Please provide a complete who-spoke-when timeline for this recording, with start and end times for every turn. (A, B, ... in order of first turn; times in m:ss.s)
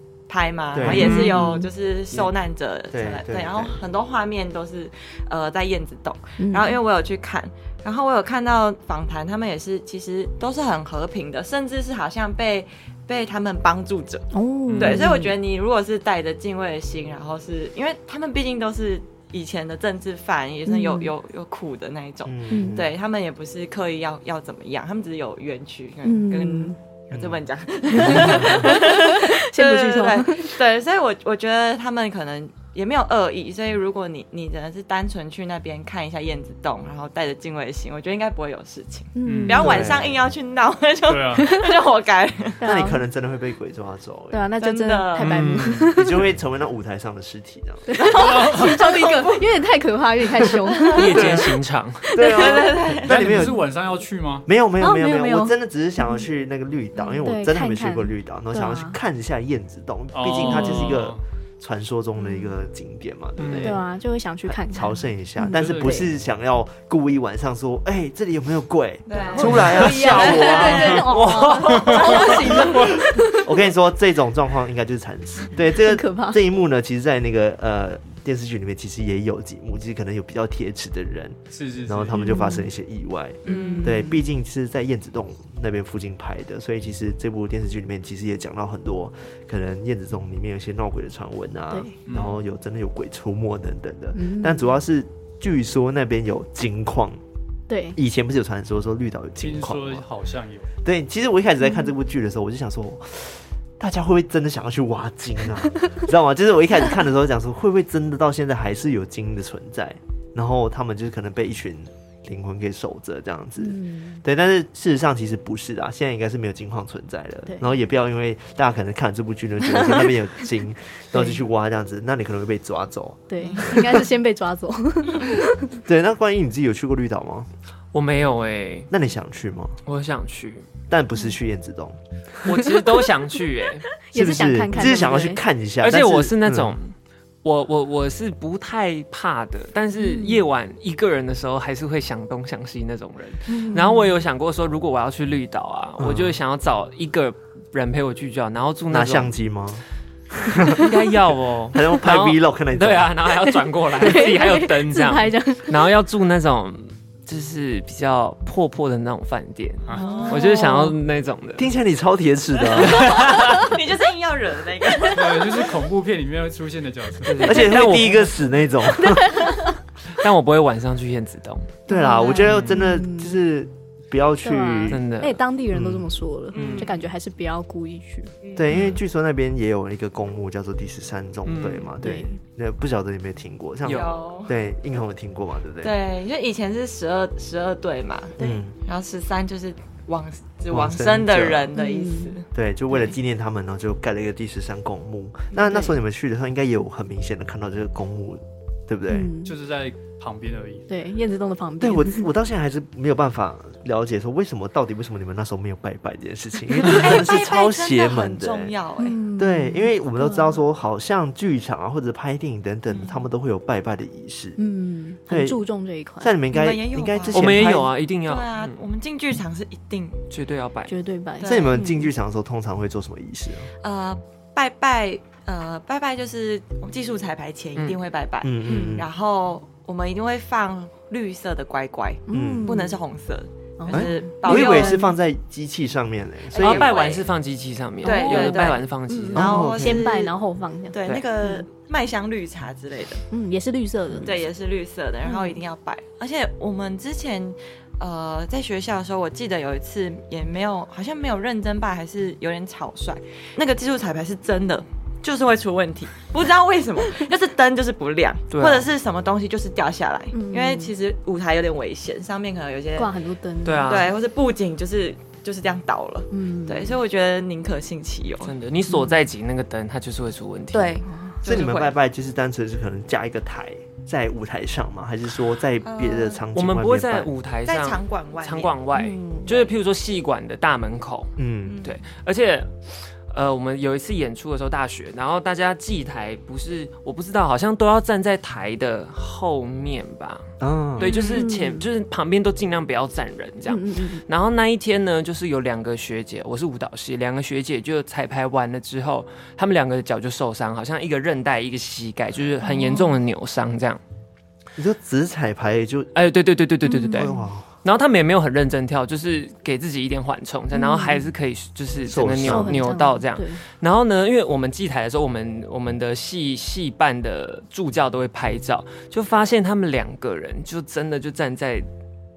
0:00.3-0:42.6 A
0:00.7-0:01.3 B
0:00.8-0:01.7 C
0:00.9-0:01.4 D
0:02.9-0:03.8 B
0:06.4-0:06.8 C
0:14.3-0:15.3 C
0:14.7-0:15.0 D
0:20.7-0:21.1 C
0:22.2-0:22.9 B
0:22.5-0:22.8 C
0:26.0-0:26.8 C
0:27.1-0:27.4 B
0:28.0-0:30.6 C
0:28.0-0:28.6 B
0:39.1-0:39.9 C
0:39.2-0:39.8 E
0:39.5-0:40.2 B
0:41.1-0:41.5 E
0:41.4-0:41.8 C
0:42.6-0:43.0 C
0:42.6-0:44.4 B
0:44.3-0:46.2 C
0:44.6-0:45.4 A
0:45.2-0:46.0 D
0:45.9-0:48.0 B
0:47.9-0:51.3 C
0:48.1-0:48.8 E
0:48.2-0:49.4 A
0:50.7-0:51.3 A
0:50.9-0:52.2 D
0:51.0-0:51.6 B
0:52.1-0:53.6 B
0:52.1-0:52.7 C
0:52.1-0:53.4 A
0:52.9-0:54.5 E
0:54.4-1:03.8 B
0:54.8-0:56.2 C
0:57.2-0:59.0 C
1:00.1-1:01.2 E
1:02.2-1:02.4 C
1:03.4-1:03.8 D
1:03.5-1:06.1 C
1:04.5-1:11.6 B
1:05.5-1:06.0 E
1:09.1-1:12.9 A
1:09.2-1:13.5 C
1:11.1-1:12.0 D
1:12.2-1:37.2 B
1:15.8-1:16.4 C
1:21.5-1:22.4 E
1:22.2-1:22.7 C
1:23.4-1:24.0 A
1:23.4-1:24.2 C
1:32.1-1:32.3 E
1:34.1-1:34.8 C
1:37.7-1:38.0 C
1:38.0-1:40.0 B
1:39.4-1:40.7 E
1:40.8-2:04.0 B
1:53.6-1:54.2 C
2:01.1-2:01.4 C
2:03.3-2:05.7 C
2:03.4-2:03.7 A
2:05.8-2:07.5 B
2:07.9-2:08.9 D
2:08.9-2:09.8 B
2:09.8-2:10.7 D
2:10.9-2:12.0 B
2:12.4-2:13.9 D
2:14.0-2:15.4 C
2:14.1-2:16.8 B
2:15.8-2:29.3 D
2:19.9-2:20.4 C
2:23.5-2:24.1 C
2:26.0-2:26.4 B
2:28.9-2:29.8 B
2:30.4-2:30.9 B
2:30.7-2:41.6 D
2:31.7-2:33.2 B
2:34.0-2:35.8 C
2:39.9-2:40.8 A
2:39.9-2:40.9 C
2:41.6-2:43.2 B
2:42.7-2:45.7 A
2:42.8-2:43.7 D
2:45.0-2:47.6 E
2:47.2-2:48.3 D
2:47.4-2:49.5 B
2:49.0-2:49.7 C
2:50.1-2:51.8 D
2:51.9-2:55.0 B
2:51.9-2:53.4 C
2:52.5-2:52.8 D
2:54.4-2:58.3 C
2:54.9-2:55.4 D
2:55.7-2:56.0 B
2:56.5-2:56.9 D
2:56.5-2:57.0 A
2:58.4-2:58.7 A
2:58.6-3:05.9 B
3:01.4-3:01.9 D
3:02.0-3:02.4 C
3:03.8-3:04.1 D
3:03.9-3:04.5 A
3:05.8-3:12.4 A
3:08.4-3:08.7 B
3:10.7-3:11.7 B
3:11.8-3:12.3 C
3:12.5-3:19.3 B
3:15.5-3:16.0 C
3:19.1-3:19.5 C
3:19.4-3:20.8 E
3:20.9-3:22.3 C
3:21.8-3:28.7 B
3:26.8-3:29.2 A
3:29.0-3:30.6 C
3:29.4-3:34.6 B
3:32.9-3:33.2 A
3:34.6-3:36.4 C
3:35.3-3:35.6 B
3:36.2-3:37.9 B
3:36.5-3:40.2 A
3:37.3-3:38.8 D
3:40.3-3:40.9 D
3:40.9-3:42.1 C
3:41.4-3:41.8 A
3:41.4-3:43.7 B
3:43.8-3:55.0 A
3:47.8-3:48.0 D
3:48.4-3:49.1 B
3:48.7-3:49.0 C
3:52.3-3:53.0 C
3:52.3-3:52.7 B
3:53.8-3:55.1 C
3:53.9-3:56.9 B
3:56.5-3:57.3 A
3:56.6-3:59.6 D
3:58.0-4:00.3 A
3:58.0-4:01.6 C
3:59.3-4:00.1 B
4:00.9-4:03.2 A
4:03.3-4:04.5 C
4:04.2-4:23.1 A
4:05.2-4:05.6 C
4:18.5-4:18.9 D
4:20.3-4:20.9 C
4:23.0-4:24.1 C
4:23.6-4:24.1 D
4:23.8-4:28.5 A
4:26.3-4:27.0 C
4:28.4-4:31.0 D
4:30.7-4:32.0 A
4:31.0-4:31.4 C
4:31.4-4:37.3 B
4:35.8-4:36.5 A
4:36.5-5:04.0 D
4:37.6-4:38.8 A
4:38.9-4:39.5 C
4:41.4-4:41.8 B
4:41.6-4:42.0 A
4:50.6-4:51.1 B
4:51.0-4:51.5 A
4:51.3-4:51.8 C
4:53.7-4:54.2 C
5:02.6-5:03.1 C
5:04.8-5:06.1 B
5:06.1-5:21.9 D
5:06.8-5:07.4 C
5:07.2-5:07.7 B
5:10.7-5:11.3 C
5:12.0-5:12.8 B
5:12.4-5:13.6 C